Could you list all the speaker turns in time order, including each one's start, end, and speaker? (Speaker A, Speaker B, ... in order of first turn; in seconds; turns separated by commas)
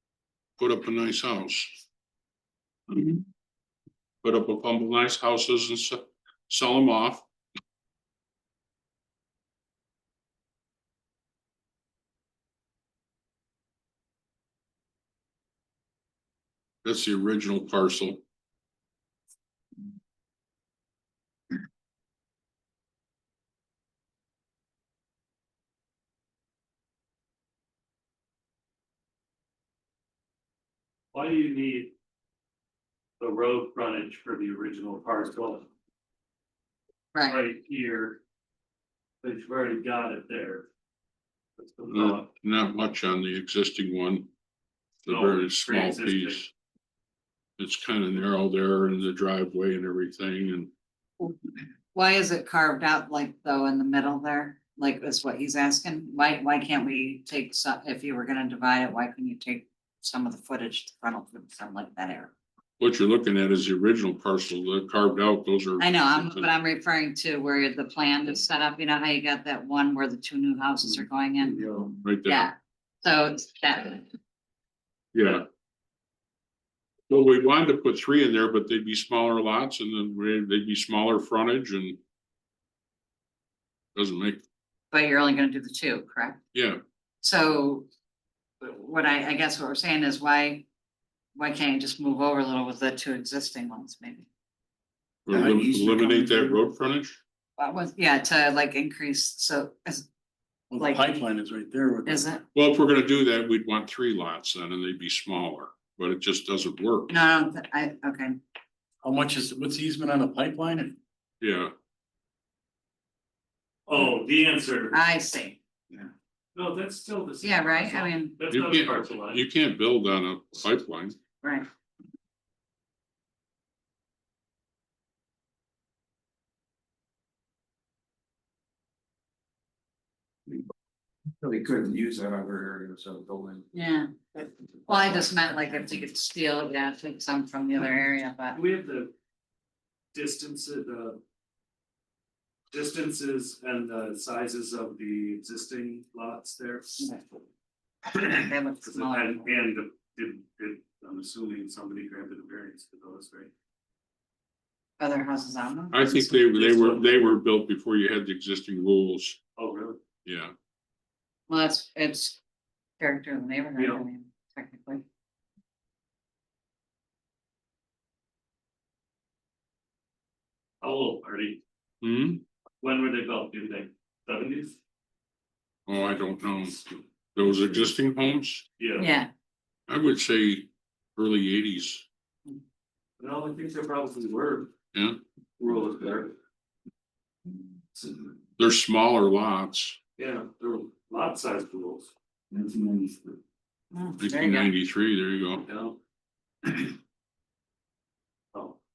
Speaker A: 0.6-1.8, Speaker A: 4.2-7.2, Speaker A: 16.8-18.2, Speaker B: 31.1-31.9, Speaker B: 33.2-35.7, Speaker C: 37.1-37.4, Speaker B: 37.2-38.2, Speaker B: 39.2-40.7, Speaker B: 41.6-42.3, Speaker A: 41.9-44.3, Speaker A: 45.0-46.5, Speaker B: 45.1-46.4, Speaker A: 47.6-50.7, Speaker C: 51.9-62.3, Speaker A: 62.8-66.5, Speaker C: 65.8-71.7, Speaker A: 72.0-72.5, Speaker C: 72.2-74.1, Speaker A: 75.1-75.4, Speaker A: 77.1-82.0, Speaker A: 83.9-84.4, Speaker C: 84.9-86.4, Speaker A: 86.5-86.8, Speaker C: 87.2-87.9, Speaker C: 88.6-90.7, Speaker C: 91.3-94.3, Speaker A: 95.2-97.2, Speaker D: 95.3-96.5, Speaker C: 97.6-100.1, Speaker D: 100.7-102.3, Speaker C: 100.8-101.1, Speaker C: 102.0-102.4, Speaker A: 102.5-107.2, Speaker C: 107.1-108.4, Speaker D: 109.0-111.0, Speaker A: 111.4-111.7, Speaker B: 113.9-114.9, Speaker C: 114.9-116.1, Speaker B: 116.5-119.4, Speaker C: 117.4-118.3, Speaker A: 118.5-121.2, Speaker C: 121.4-121.7, Speaker E: 131.4-133.6, Speaker C: 133.7-134.1, Speaker C: 134.8-138.6, Speaker B: 138.5-139.1, Speaker B: 140.1-141.2, Speaker B: 142.7-147.0, Speaker C: 148.1-149.4, Speaker B: 148.8-153.5, Speaker C: 155.0-156.3, Speaker A: 155.9-159.4, Speaker B: 156.5-157.3, Speaker B: 159.6-160.0, Speaker A: 160.2-160.5, Speaker C: 161.5-162.4, Speaker C: 163.0-165.0, Speaker B: 163.8-164.0, Speaker B: 170.8-171.6, Speaker A: 172.0-172.4, Speaker B: 172.8-174.8, Speaker A: 175.9-178.6, Speaker B: 178.8-179.1, Speaker C: 179.0-179.3, Speaker A: 179.9-182.1, Speaker B: 183.2-184.7, Speaker A: 184.9-185.2, Speaker B: 185.6-186.3, Speaker A: 188.6-190.0, Speaker B: 190.2-193.1, Speaker C: 193.9-194.7, Speaker A: 194.2-195.7, Speaker B: 195.7-196.0